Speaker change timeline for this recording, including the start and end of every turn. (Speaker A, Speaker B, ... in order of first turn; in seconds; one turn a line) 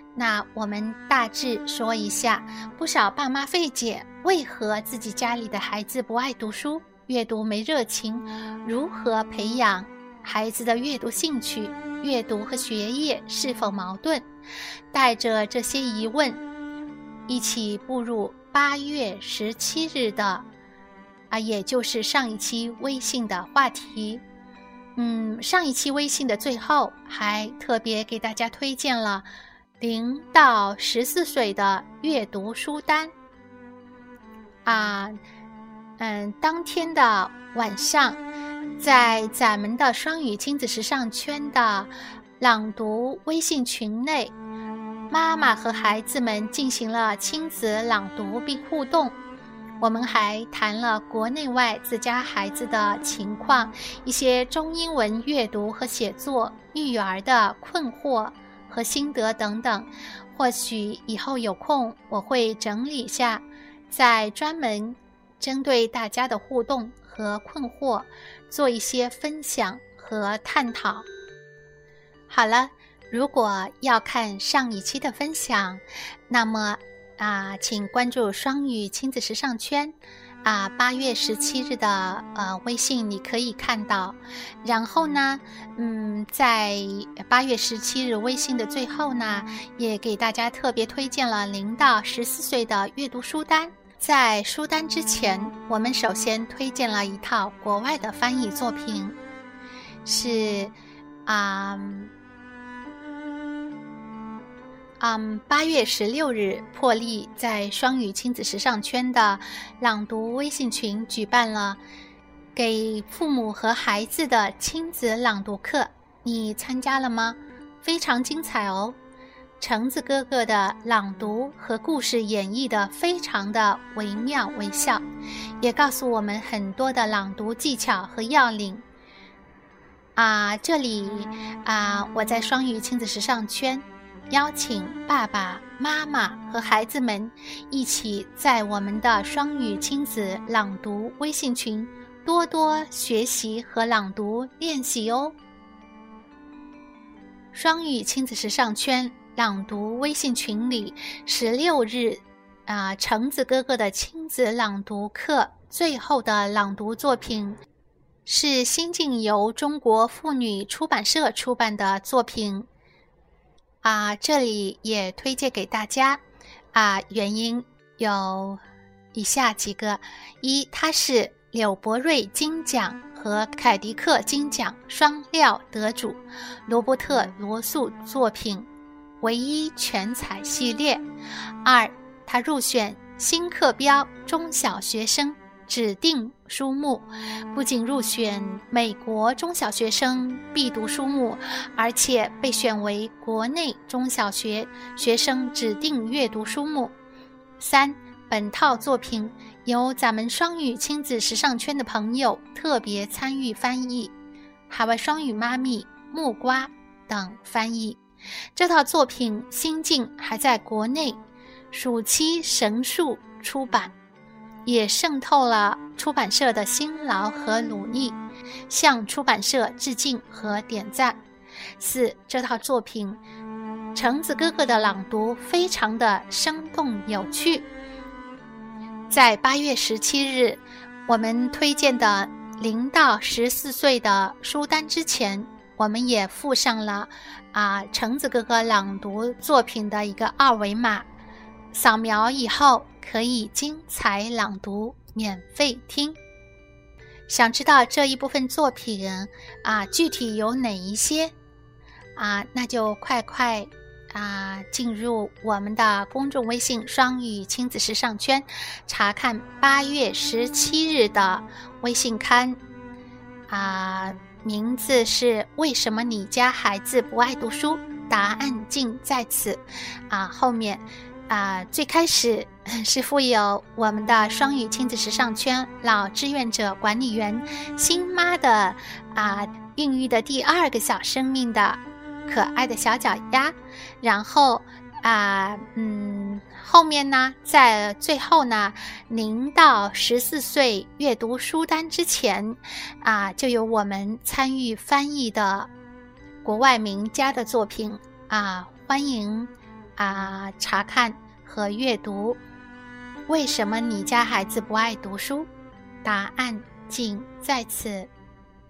Speaker A: 0.1-14.3
Speaker A: 14.9-16.4
Speaker A: 17.3-20.5
Speaker A: 21.3-24.2
Speaker A: 24.9-29.2
Speaker A: 29.8-33.1
Speaker A: 34.6-35.2
Speaker A: 36.0-38.2
Speaker A: 38.8-44.3
Speaker A: 45.1-49.2
Speaker A: 49.8-71.1
Speaker A: 72.3-99.2
Speaker A: 100.0-102.1
Speaker A: 105.0-111.8
Speaker A: 112.5-119.0
Speaker A: 119.6-125.0
Speaker A: 125.6-128.8
Speaker A: 130.2-145.3
Speaker A: 147.5-157.6
Speaker A: 158.2-162.7
Speaker A: 163.8-166.2
Speaker A: 166.7-168.6
Speaker A: 169.1-178.7
Speaker A: 179.2-181.1
Speaker A: 181.6-196.9
Speaker A: 197.6-204.1
Speaker A: 204.7-208.0
Speaker A: 208.5-211.2
Speaker A: 211.7-213.9
Speaker A: 214.6-221.2
Speaker A: 221.8-223.2
Speaker A: 223.9-227.7
Speaker A: 229.1-241.1
Speaker A: 241.7-246.2
Speaker A: 247.3-251.3
Speaker A: 252.2-262.6
Speaker A: 263.5-295.7
Speaker A: 296.4-302.4
Speaker A: 303.3-305.5
Speaker A: 306.0-308.1